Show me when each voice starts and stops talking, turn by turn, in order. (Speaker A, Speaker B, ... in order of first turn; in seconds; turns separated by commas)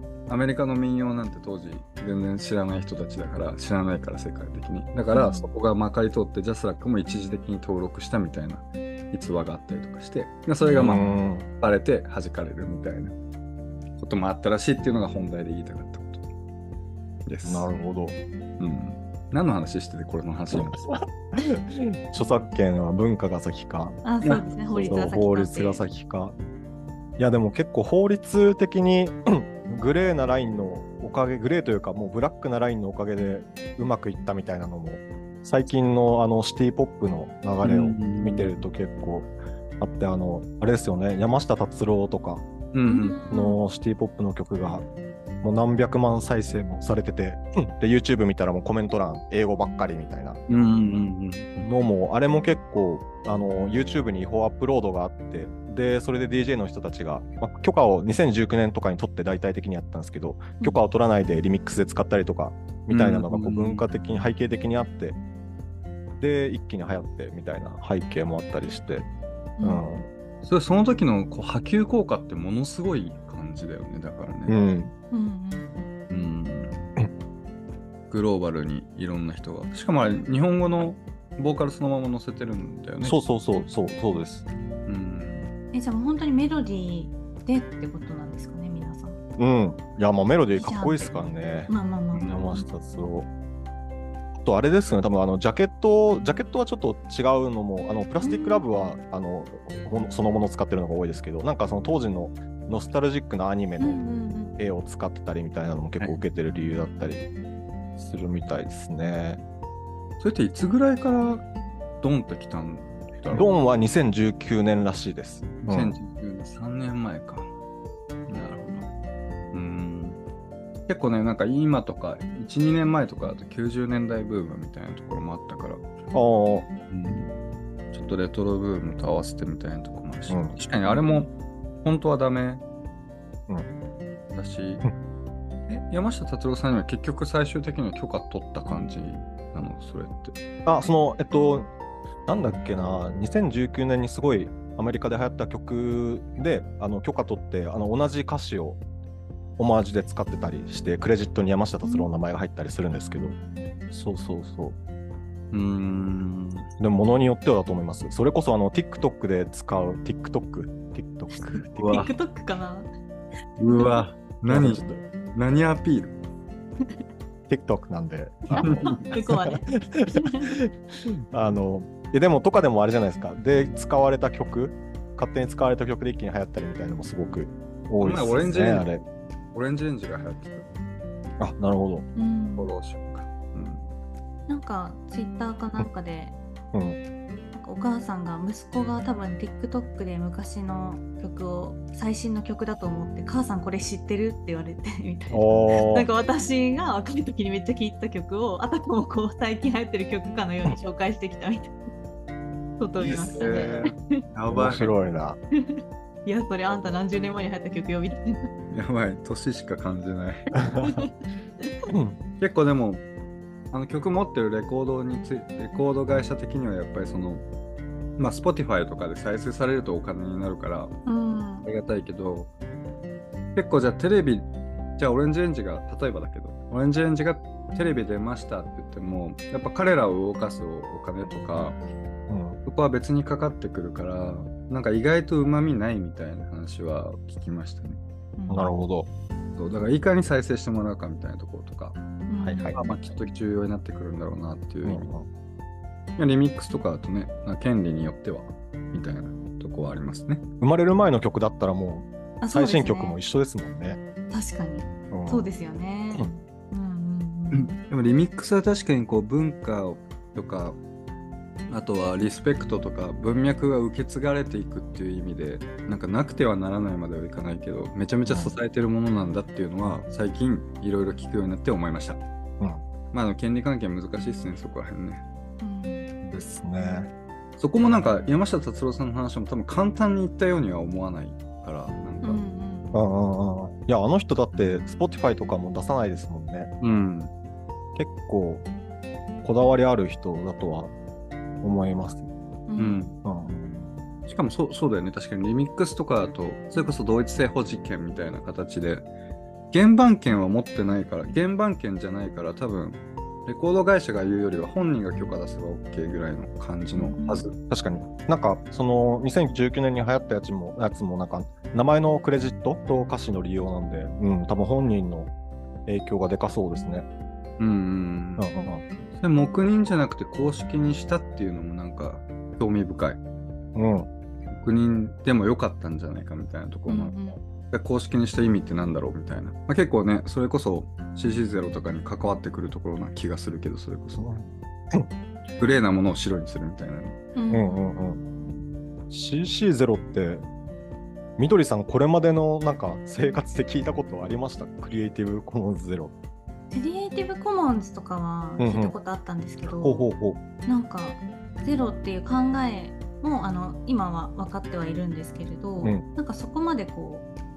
Speaker A: 0.3-13.1, Speaker B: 5.1-5.5, Speaker B: 10.6-11.2, Speaker C: 10.8-11.5, Speaker A: 14.0-16.2, Speaker A: 17.2-17.7, Speaker C: 17.4-18.2, Speaker A: 18.6-20.8, Speaker C: 20.5-24.0, Speaker B: 24.0-25.8, Speaker A: 24.2-25.0, Speaker C: 24.8-26.4, Speaker C: 27.2-42.5, Speaker A: 37.6-38.6, Speaker A: 42.7-43.1, Speaker B: 42.9-43.6, Speaker C: 43.3-44.9, Speaker C: 45.4-50.4, Speaker A: 50.5-51.7, Speaker C: 51.6-65.2, Speaker A: 62.9-63.8, Speaker C: 66.2-69.1, Speaker B: 69.6-69.8, Speaker C: 69.6-70.1, Speaker A: 70.4-74.5, Speaker C: 74.5-74.9, Speaker B: 75.1-75.9, Speaker A: 76.1-76.8, Speaker A: 78.1-83.2, Speaker C: 83.0-84.5, Speaker A: 84.9-85.5, Speaker B: 85.7-89.2, Speaker C: 89.4-91.7, Speaker B: 90.5-91.1, Speaker B: 91.7-92.7, Speaker C: 92.3-93.3, Speaker C: 94.3-104.0, Speaker B: 98.2-98.6, Speaker B: 103.8-104.5, Speaker C: 104.5-107.2, Speaker C: 108.0-109.4, Speaker A: 110.2-111.5, Speaker A: 112.0-113.6, Speaker C: 113.3-116.0, Speaker A: 115.6-117.5, Speaker A: 118.3-118.9, Speaker A: 119.5-120.2, Speaker A: 120.9-125.8, Speaker C: 126.1-126.7, Speaker A: 126.9-127.3, Speaker A: 127.9-131.3, Speaker C: 130.3-130.6, Speaker B: 130.9-131.2, Speaker A: 131.8-132.6, Speaker A: 134.3-134.8, Speaker A: 135.7-140.4, Speaker C: 140.7-141.7, Speaker C: 142.3-148.8, Speaker C: 149.6-153.4, Speaker B: 151.8-152.1, Speaker C: 153.9-154.8, Speaker A: 155.5-156.7, Speaker C: 156.8-162.0, Speaker B: 161.4-162.9, Speaker A: 161.8-162.1, Speaker A: 163.6-164.8, Speaker B: 163.7-164.0, Speaker C: 164.5-165.0, Speaker A: 165.3-166.1, Speaker C: 167.5-170.7, Speaker B: 168.5-170.6, Speaker A: 168.6-169.1, Speaker C: 171.3-179.0, Speaker A: 178.0-178.9, Speaker A: 179.5-180.8, Speaker C: 181.4-182.1, Speaker B: 182.2-182.7, Speaker A: 182.6-183.9, Speaker B: 184.5-186.4, Speaker C: 186.7-187.0, Speaker B: 187.5-201.8, Speaker C: 195.3-196.1, Speaker B: 202.8-204.2, Speaker C: 203.0-203.9, Speaker A: 203.0-204.9, Speaker C: 204.5-205.4, Speaker B: 205.5-208.5, Speaker A: 208.7-210.6, Speaker C: 210.6-211.0, Speaker B: 210.8-211.7, Speaker C: 211.9-212.2, Speaker A: 212.4-213.0, Speaker A: 213.7-217.4, Speaker A: 218.2-221.0, Speaker B: 221.1-221.7, Speaker A: 221.6-222.5, Speaker A: 223.5-231.8, Speaker C: 232.3-232.6, Speaker A: 232.6-238.0, Speaker B: 238.4-238.7, Speaker C: 238.5-239.1, Speaker A: 239.6-242.0, Speaker B: 242.3-242.8, Speaker C: 242.4-242.9, Speaker A: 242.8-245.1, Speaker C: 244.8-245.3, Speaker A: 246.2-250.4, Speaker C: 250.6-254.0, Speaker B: 252.4-253.2, Speaker B: 254.3-257.7, Speaker C: 255.1-255.5, Speaker A: 257.5-260.8, Speaker A: 261.7-272.2, Speaker C: 268.2-268.6, Speaker A: 273.1-275.2, Speaker B: 275.6-276.1, Speaker C: 276.2-277.1, Speaker A: 277.6-282.4, Speaker B: 282.2-283.0, Speaker C: 282.9-286.7, Speaker A: 286.8-287.3, Speaker C: 287.9-288.6, Speaker C: 289.4-290.9, Speaker C: 291.6-292.3, Speaker B: 292.7-293.2, Speaker A: 292.8-293.1, Speaker C: 293.2-293.9, Speaker A: 294.3-299.1, Speaker A: 299.7-307.5, Speaker B: 307.0-307.5, Speaker C: 307.7-315.3, Speaker C: 315.9-317.1, Speaker A: 317.6-318.5, Speaker C: 318.4-318.9, Speaker A: 319.2-323.2, Speaker C: 323.8-324.1, Speaker A: 324.5-334.4, Speaker B: 326.9-327.4, Speaker C: 334.2-335.1, Speaker A: 335.6-337.2, Speaker B: 337.4-337.8, Speaker C: 337.5-338.2, Speaker C: 339.1-340.4, Speaker C: 341.4-346.1, Speaker B: 346.7-350.0, Speaker C: 348.6-348.9, Speaker C: 349.6-350.4, Speaker B: 350.6-357.2